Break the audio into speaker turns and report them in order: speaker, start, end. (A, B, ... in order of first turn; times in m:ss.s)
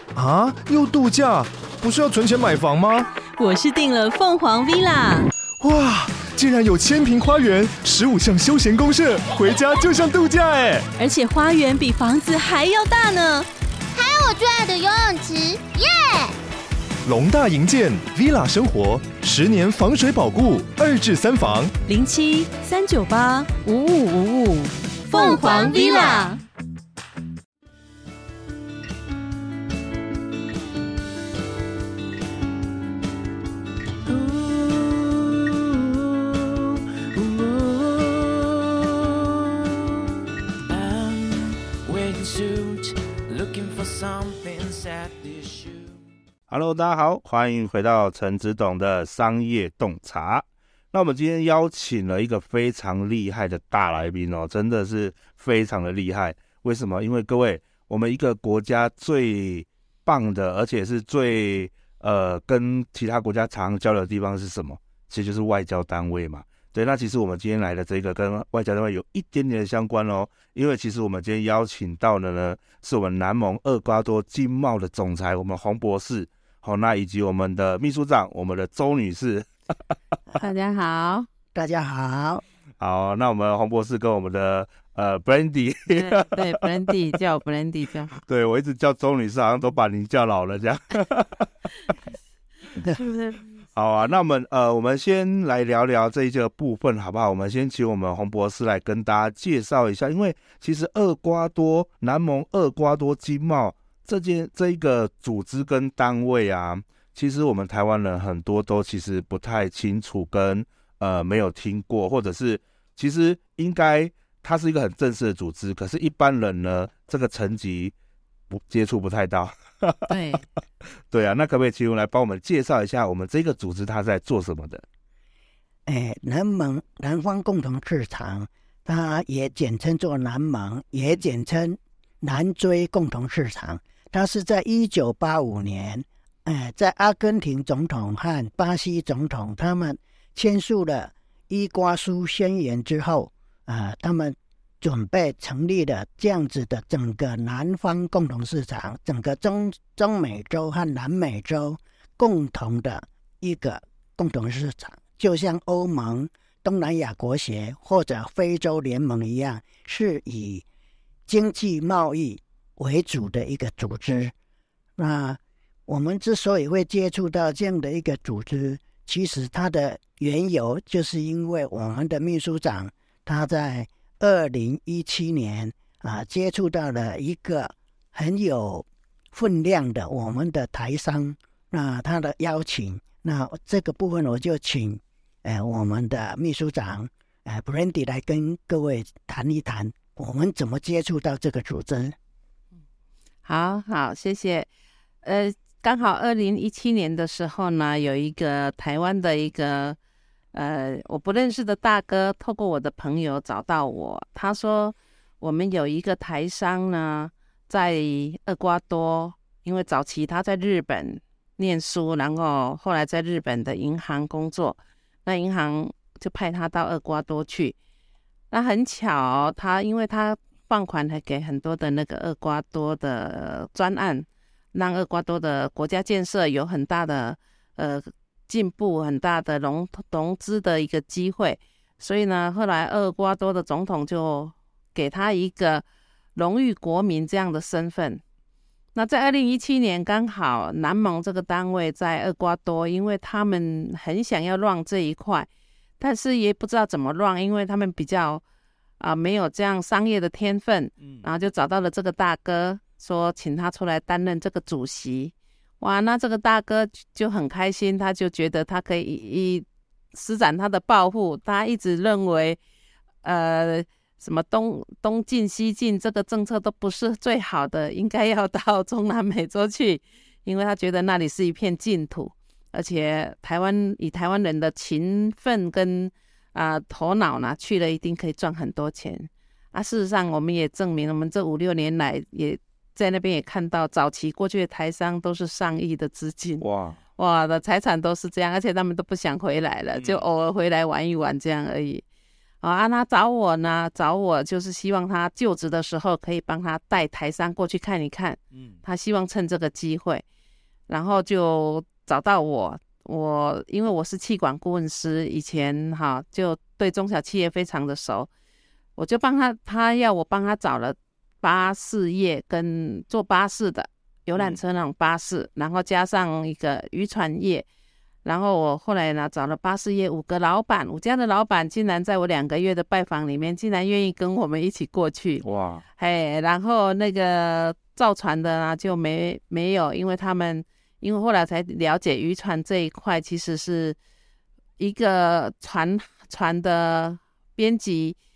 0:00.2-0:03.1 A
0:03.4-0:05.3 B
0:05.6-0:10.9 A
0:11.0-0:13.5 B
0:13.9-0:16.4 C
0:17.0-0:21.8 A
0:21.9-0:26.4 B
0:25.1-0:26.3 C
0:34.1-0:40.0 D
0:40.7-0:46.0 D
0:46.5-1:19.5 E
1:20.4-1:21.3 F
1:21.6-1:22.4 G
1:22.8-1:26.9 E
1:25.9-1:28.2 F
1:28.2-1:31.9 E
1:33.0-1:33.4 F
1:33.7-1:57.9 E
1:58.5-2:00.1 E
2:00.1-2:00.4 F
2:01.1-2:04.8 E
2:05.9-2:40.6 G
2:41.3-2:44.3 G
2:45.0-3:12.2 G
3:13.4-3:14.7 F
3:15.2-3:20.0 F
3:20.5-3:37.8 F
3:38.5-3:55.8 F
3:56.4-3:58.2 F
3:59.0-4:05.5 F
4:06.0-4:08.4 F
4:09.0-4:22.6 F
4:23.2-4:46.6 F
4:46.6-4:47.0 E
4:47.2-4:52.0 F
4:50.0-4:50.2 E
4:52.6-5:00.2 F
5:00.9-5:08.3 F
5:09.0-5:17.7 F
5:18.2-5:25.4 F
5:25.4-5:25.8 E
5:26.0-5:34.0 F
5:34.8-5:38.2 F